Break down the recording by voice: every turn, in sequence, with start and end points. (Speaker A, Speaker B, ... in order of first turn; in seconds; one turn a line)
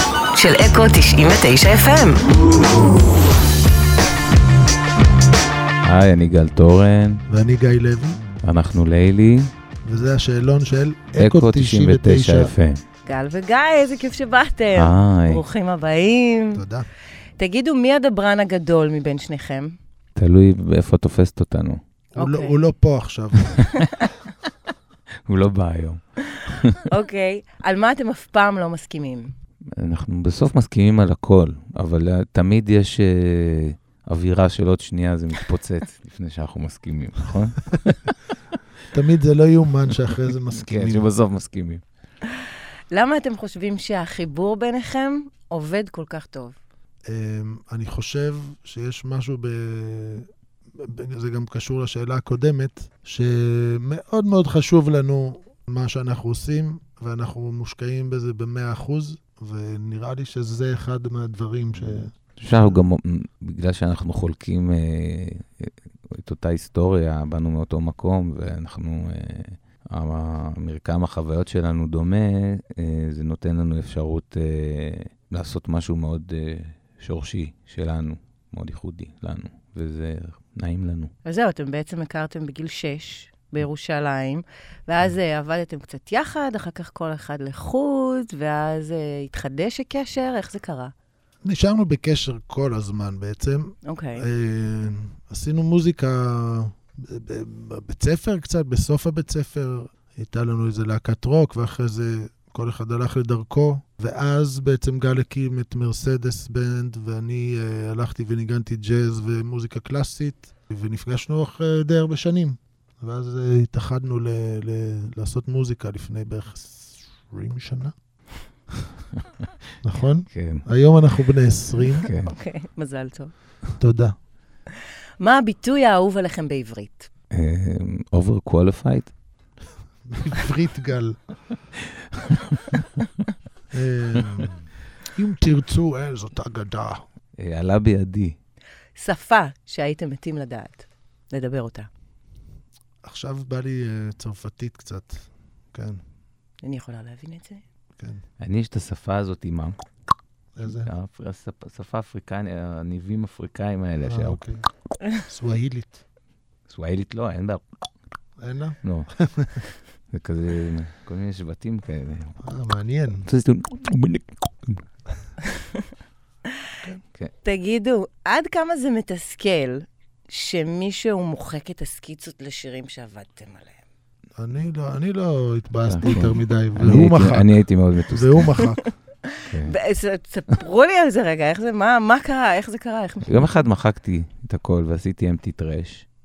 Speaker A: 0.3-2.2
Speaker B: 5.8-7.2
Speaker C: 7.3-8.2
Speaker B: 8.4-9.5
Speaker C: 9.8-12.5
Speaker B: 11.2-12.8
Speaker A: 13.1-16.6
Speaker B: 14.7-15.4
Speaker C: 16.5-16.9
Speaker A: 17.4-19.7
Speaker B: 20.1-21.8
Speaker C: 22.1-23.7
Speaker A: 22.2-22.6
Speaker B: 23.5-24.1
Speaker B: 25.2-26.9
Speaker A: 26.9-29.3
Speaker B: 29.8-38.2
Speaker C: 38.9-41.1
Speaker B: 40.5-41.8
Speaker A: 42.9-46.6
Speaker C: 47.1-50.3
Speaker C: 50.8-62.8
Speaker B: 61.8-81.1
Speaker A: 81.2-90.9
Speaker C: 91.4-117.9
Speaker A: 93.9-94.3
Speaker C: 119.8-122.1
Speaker B: 120.3-120.7
Speaker B: 122.0-122.3
Speaker A: 122.2-123.3
Speaker C: 123.8-124.1
Speaker A: 125.2-127.1
Speaker B: 127.3-129.1
Speaker C: 130.1-131.2
Speaker C: 133.7-137.0
Speaker B: 137.4-138.4
Speaker A: 139.0-141.9
Speaker C: 143.0-146.0
Speaker A: 146.6-147.6
Speaker B: 148.4-149.8
Speaker C: 150.6-150.9
Speaker B: 150.6-154.4
Speaker C: 154.0-154.7
Speaker C: 155.3-156.0
Speaker B: 156.7-157.6
Speaker C: 158.4-159.6
Speaker B: 158.8-159.1
Speaker B: 160.1-162.4
Speaker C: 162.4-163.3
Speaker B: 163.3-164.8
Speaker A: 167.4-173.8
Speaker C: 174.4-178.8
Speaker B: 175.9-178.6
Speaker A: 179.4-183.5
Speaker B: 179.5-179.7
Speaker B: 183.2-186.1